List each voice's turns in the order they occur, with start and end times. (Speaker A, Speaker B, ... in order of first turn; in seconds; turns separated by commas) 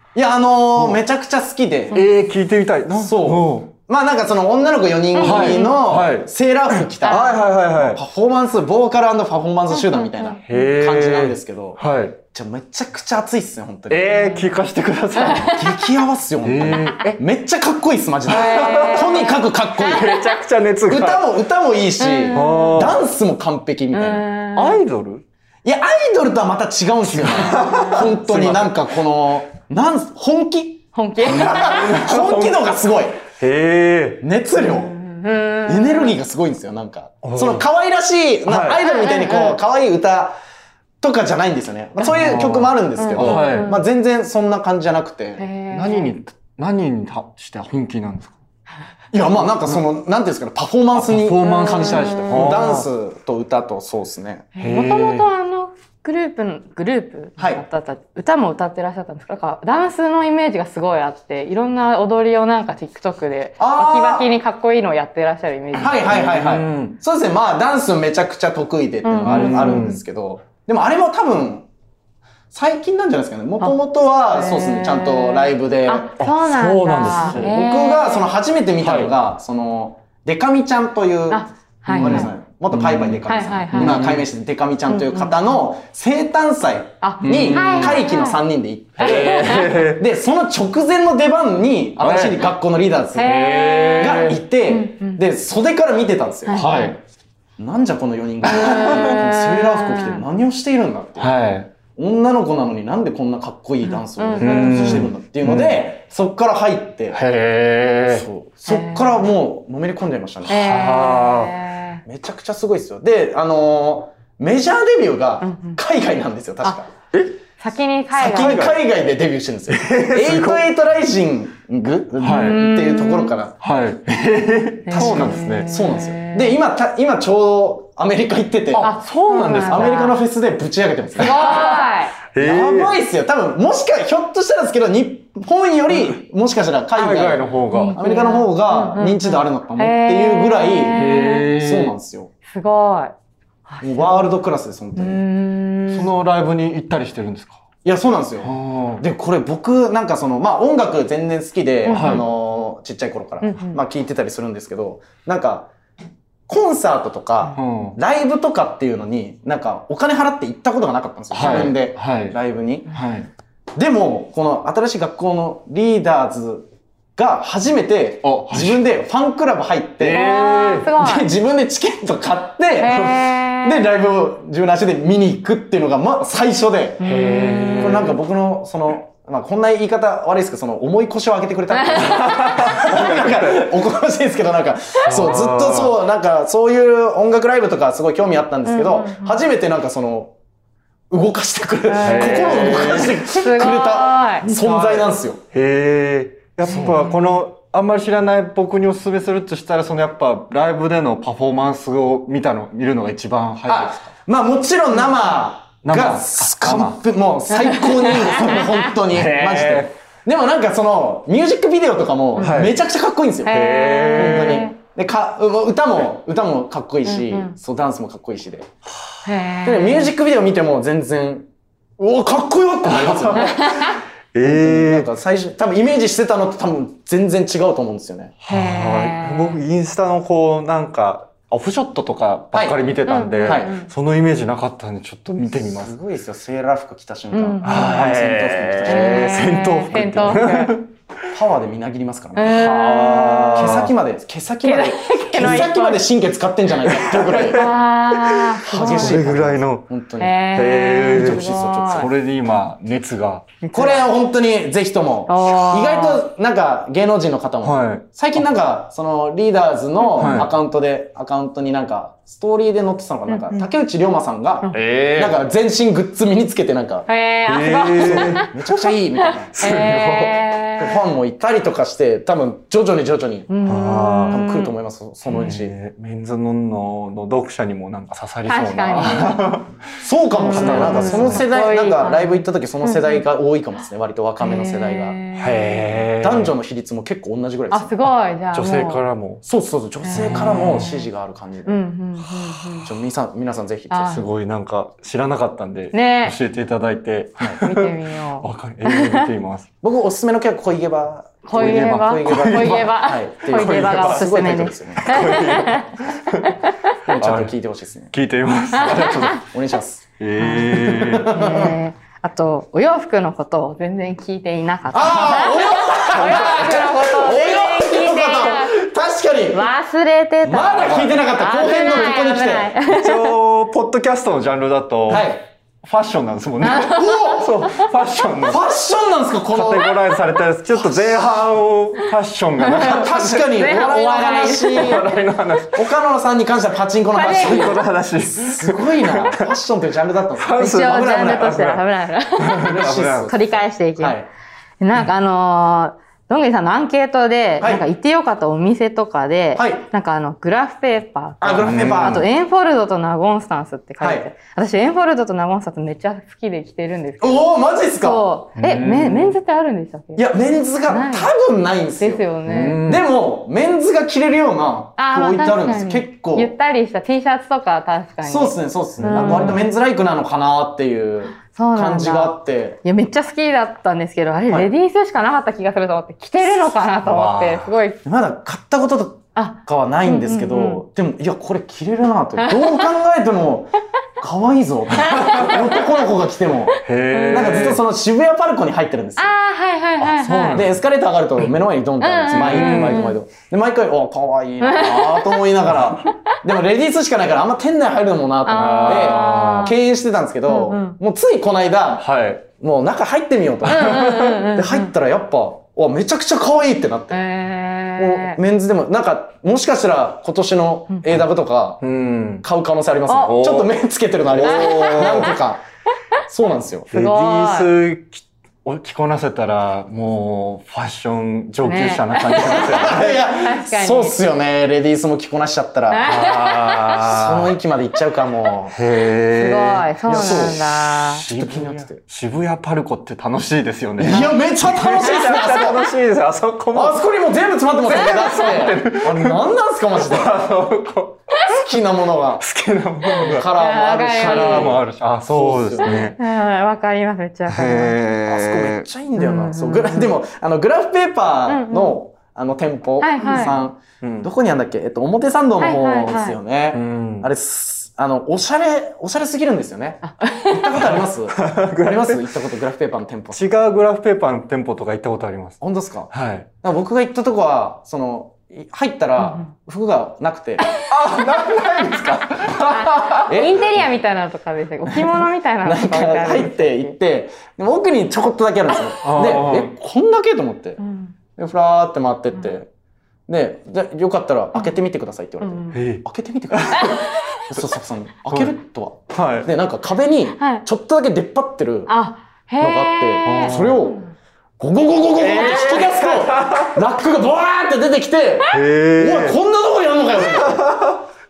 Speaker A: 0.1-2.0, Speaker B: 0.8-1.0, Speaker B: 1.9-3.7, Speaker A: 3.0-11.8, Speaker C: 5.2-5.8, Speaker B: 5.2-8.0, Speaker C: 7.0-7.4, Speaker C: 9.7-10.4, Speaker B: 10.5-12.2, Speaker A: 12.3-14.4, Speaker B: 13.9-15.7, Speaker C: 15.2-15.6, Speaker A: 15.4-20.1, Speaker B: 16.4-17.2, Speaker C: 18.3-19.4, Speaker B: 18.3-21.3, Speaker A: 20.9-24.2, Speaker C: 22.0-22.8, Speaker B: 22.3-23.0, Speaker C: 23.9-24.8, Speaker B: 24.6-25.2, Speaker A: 25.6-33.3, Speaker B: 27.1-28.8, Speaker C: 27.5-28.0, Speaker C: 30.9-31.9, Speaker B: 31.3-32.6, Speaker B: 33.3-34.2, Speaker A: 34.2-35.0, Speaker C: 34.6-36.2, Speaker A: 35.7-40.4, Speaker B: 37.2-37.7, Speaker B: 38.5-38.8, Speaker C: 38.8-39.6, Speaker A: 41.0-45.4, Speaker B: 42.0-43.7, Speaker C: 43.0-43.8, Speaker C: 45.4-46.2, Speaker B: 45.7-48.4, Speaker A: 49.1-54.5, Speaker B: 50.9-52.9, Speaker C: 51.4-52.6, Speaker C: 54.5-66.2, Speaker B: 54.6-55.3, Speaker A: 57.4-57.6, Speaker A: 63.6-64.3, Speaker A: 65.8-71.7, Speaker B: 65.8-67.0, Speaker C: 69.0-69.9, Speaker B: 69.2-70.0, Speaker A: 72.5-76.1, Speaker C: 74.3-78.3, Speaker B: 76.2-77.5, Speaker A: 77.0-93.4, Speaker B: 78.8-79.1, Speaker C: 81.3-82.3, Speaker B: 81.9-84.2, Speaker C: 83.3-84.1, Speaker C: 84.9-85.4, Speaker C: 87.0-88.4, Speaker B: 87.2-88.0, Speaker B: 89.0-90.0, Speaker C: 89.0-89.8, Speaker B: 92.0-92.5, Speaker C: 93.2-95.2, Speaker B: 93.2-94.4, Speaker A: 94.0-96.8, Speaker C: 96.5-97.0, Speaker B: 96.5-97.0, Speaker A: 97.6-101.4, Speaker C: 98.5-100.2, Speaker B: 98.7-99.1, Speaker B: 101.2-101.7, Speaker A: 102.0-107.2, Speaker C: 103.8-105.1, Speaker B: 104.4-105.9, Speaker B: 107.1-108.3, Speaker A: 108.1-110.6, Speaker C: 108.7-109.2, Speaker B: 110.5-111.5, Speaker C: 110.5-112.0, Speaker A: 112.1-116.9, Speaker C: 115.4-115.8, Speaker C: 117.6-118.7, Speaker A: 118.2-123.6, Speaker B: 118.2-118.8, Speaker B: 119.7-120.7, Speaker B: 122.2-122.7, Speaker C: 122.3-123.3, Speaker B: 123.6-126.2, Speaker C: 124.9-126.6, Speaker A: 124.9-128.9, Speaker B: 128.7-130.1, Speaker C: 128.8-130.2, Speaker A: 129.7-131.7, Speaker C: 131.2-132.2, Speaker B: 131.2-131.7, Speaker B: 132.3-133.0, Speaker A: 132.4-142.3, Speaker B: 135.9-136.2, Speaker B: 136.9-138.0, Speaker C: 137.7-141.5, Speaker B: 140.9-142.0, Speaker C: 142.5-143.1, Speaker C: 143.7-144.4, Speaker A: 143.8-145.2, Speaker C: 145.0-146.1, Speaker B: 145.9-147.6, Speaker A: 147.8-155.7, Speaker B: 148.4-149.1, Speaker C: 151.9-152.2, Speaker B: 151.9-152.3, Speaker C: 153.4-153.8, Speaker A: 156.5-162.9, Speaker B: 157.5-158.0, Speaker B: 161.3-162.4, Speaker B: 162.9-163.3, Speaker A: 163.8-170.3, Speaker B: 168.2-168.8, Speaker B: 170.0-170.9, Speaker C: 170.1-171.3, Speaker A: 171.0-177.0, Speaker C: 172.8-173.9, Speaker C: 177.0-178.2, Speaker B: 177.0-178.2, Speaker A: 177.8-190.3, Speaker C: 181.7-182.5, Speaker B: 182.0-183.7, Speaker B: 185.1-185.9, Speaker C: 188.7-189.4, Speaker A: 191.1-195.4, Speaker C: 191.9-194.5, Speaker B: 192.0-193.2, Speaker B: 194.5-204.1, Speaker C: 196.7-197.2, Speaker A: 203.7-218.7, Speaker B: 205.8-207.0, Speaker C: 207.6-208.7, Speaker B: 209.1-209.9, Speaker B: 212.4-212.8, Speaker C: 213.4-214.8, Speaker B: 213.5-214.7, Speaker C: 217.1-217.6, Speaker C: 219.2-220.1, Speaker A: 219.6-221.5, Speaker A: 222.0-223.9, Speaker B: 222.8-225.1, Speaker C: 223.4-224.0, Speaker A: 224.4-228.4, Speaker B: 228.4-235.9, Speaker C: 228.5-229.6, Speaker A: 232.5-232.8, Speaker C: 233.1-233.9, Speaker A: 233.4-233.7, Speaker A: 235.5-239.6, Speaker C: 237.3-238.0, Speaker B: 237.6-240.8, Speaker C: 238.8-240.8, Speaker A: 241.3-247.7, Speaker C: 242.3-243.3, Speaker B: 242.4-243.9, Speaker C: 244.6-246.1, Speaker B: 246.9-249.9, Speaker C: 247.4-249.3, Speaker A: 248.7-250.4, Speaker C: 250.2-252.1, Speaker B: 250.5-253.5, Speaker A: 251.0-252.1, Speaker C: 253.6-254.1, Speaker A: 253.7-267.1, Speaker C: 255.3-256.2, Speaker B: 257.6-258.1, Speaker C: 260.0-260.4, Speaker B: 260.2-260.5, Speaker B: 264.7-265.4, Speaker C: 267.1-271.0, Speaker B: 267.5-268.7, Speaker A: 268.0-269.6, Speaker B: 269.5-270.4, Speaker A: 270.8-273.6, Speaker C: 273.5-274.7, Speaker B: 273.7-274.5, Speaker A: 274.3-275.8, Speaker B: 275.3-279.8, Speaker C: 278.5-279.6, Speaker A: 280.0-285.2, Speaker C: 280.4-283.2, Speaker B: 280.5-281.4, Speaker C: 284.4-285.9, Speaker B: 285.4-286.6, Speaker A: 286.2-287.9, Speaker C: 287.7-289.0, Speaker B: 288.5-289.4, Speaker A: 289.4-291.8, Speaker C: 290.0-291.1, Speaker B: 290.1-291.0, Speaker C: 291.7-292.9, Speaker A: 292.9-294.2, Speaker C: 293.9-294.2, Speaker B: 294.1-299.7, Speaker C: 295.9-296.4, Speaker C: 297.6-299.3, Speaker A: 299.8-305.5, Speaker C: 301.4-307.0, Speaker B: 301.6-302.9, Speaker B: 303.5-306.6, Speaker A: 307.0-308.1, Speaker B: 307.2-307.5, Speaker B: 308.1-309.4, Speaker C: 308.8-309.4, Speaker A: 308.9-311.7, Speaker B: 310.2-311.8, Speaker C: 310.4-318.8, Speaker A: 314.9-319.7, Speaker B: 316.1-316.9, Speaker C: 319.5-323.4, Speaker A: 320.4-322.7, Speaker B: 320.8-321.1, Speaker B: 322.9-328.6, Speaker A: 325.1-325.4, Speaker C: 326.6-327.9, Speaker A: 326.8-327.6, Speaker A: 328.5-329.9, Speaker B: 329.5-333.5, Speaker A: 330.7-331.6, Speaker C: 332.6-335.0, Speaker A: 332.8-335.1, Speaker B: 334.6-335.9, Speaker A: 335.7-337.8, Speaker C: 337.1-337.8, Speaker B: 337.2-339.5, Speaker A: 338.4-341.6, Speaker B: 340.4-341.8, Speaker C: 340.6-342.8, Speaker B: 342.4-343.4, Speaker A: 342.6-344.3, Speaker C: 343.3-344.2, Speaker C: 344.8-360.3, Speaker A: 349.6-349.9, Speaker A: 351.4-352.2, Speaker B: 351.6-352.2, Speaker A: 354.0-354.3, Speaker A: 357.2-358.2, Speaker B: 358.6-359.4, Speaker A: 360.2-362.3, Speaker C: 360.9-361.3, Speaker C: 362.0-362.8, Speaker B: 362.5-363.1, Speaker A: 362.8-366.5, Speaker C: 365.0-369.6, Speaker A: 368.2-372.8, Speaker B: 369.0-369.6, Speaker C: 371.4-378.0, Speaker B: 377.0-377.7, Speaker A: 378.1-389.4, Speaker C: 379.4-380.8, Speaker C: 382.4-382.9, Speaker B: 384.9-385.6, Speaker C: 385.0-385.9, Speaker B: 386.8-387.8, Speaker C: 387.1-387.7, Speaker C: 389.2-390.6, Speaker B: 390.0-390.8, Speaker A: 390.4-407.2, Speaker C: 392.0-393.2, Speaker B: 392.3-393.1, Speaker C: 394.6-395.4, Speaker C: 398.4-399.8, Speaker B: 398.6-399.7, Speaker C: 400.5-401.0, Speaker B: 402.0-402.4, Speaker B: 403.7-404.3, Speaker C: 403.7-404.9, Speaker C: 407.1-408.4, Speaker A: 408.0-411.9, Speaker B: 411.8-412.5, Speaker A: 412.4-415.6, Speaker C: 413.1-413.4, Speaker B: 413.2-415.4, Speaker C: 414.4-415.3, Speaker A: 416.3-416.9, Speaker C: 416.9-417.7, Speaker B: 416.9-423.2, Speaker C: 421.6-424.2, Speaker A: 422.4-426.1, Speaker C: 425.9-427.0, Speaker B: 426.1-427.5, Speaker A: 427.0-428.8, Speaker B: 428.7-437.0, Speaker C: 429.4-431.2, Speaker A: 430.1-432.0, Speaker A: 434.0-435.9, Speaker A: 436.7-440.4, Speaker B: 437.8-441.6, Speaker C: 438.0-438.6, Speaker A: 441.5-442.5, Speaker B: 442.4-443.5, Speaker C: 443.1-444.8, Speaker A: 443.2-446.1, Speaker B: 444.2-446.2, Speaker C: 445.8-448.0, Speaker B: 447.5-448.9, Speaker A: 448.3-463.5, Speaker C: 449.2-450.1, Speaker C: 451.5-452.0, Speaker C: 453.0-453.5, Speaker B: 454.0-454.3, Speaker C: 455.6-456.4, Speaker B: 456.7-457.3, Speaker C: 460.0-460.6, Speaker B: 460.7-462.3, Speaker B: 463.3-466.5, Speaker A: 465.6-466.1, Speaker A: 466.6-470.7, Speaker C: 469.2-469.5, Speaker B: 470.8-473.4, Speaker C: 472.6-477.0, Speaker A: 473.3-473.7, Speaker A: 475.6-480.8, Speaker B: 479.0-479.7, Speaker C: 480.8-481.1, Speaker A: 481.4-482.7, Speaker A: 483.3-491.9, Speaker C: 485.4-485.8, Speaker B: 485.7-487.6, Speaker C: 486.8-487.4, Speaker B: 489.1-489.5, Speaker C: 490.4-490.6, Speaker C: 491.9-493.9, Speaker A: 492.6-494.1, Speaker B: 493.3-493.9, Speaker A: 494.6-500.8, Speaker B: 495.1-496.8, Speaker C: 495.4-495.8, Speaker B: 498.5-499.4, Speaker B: 500.2-501.0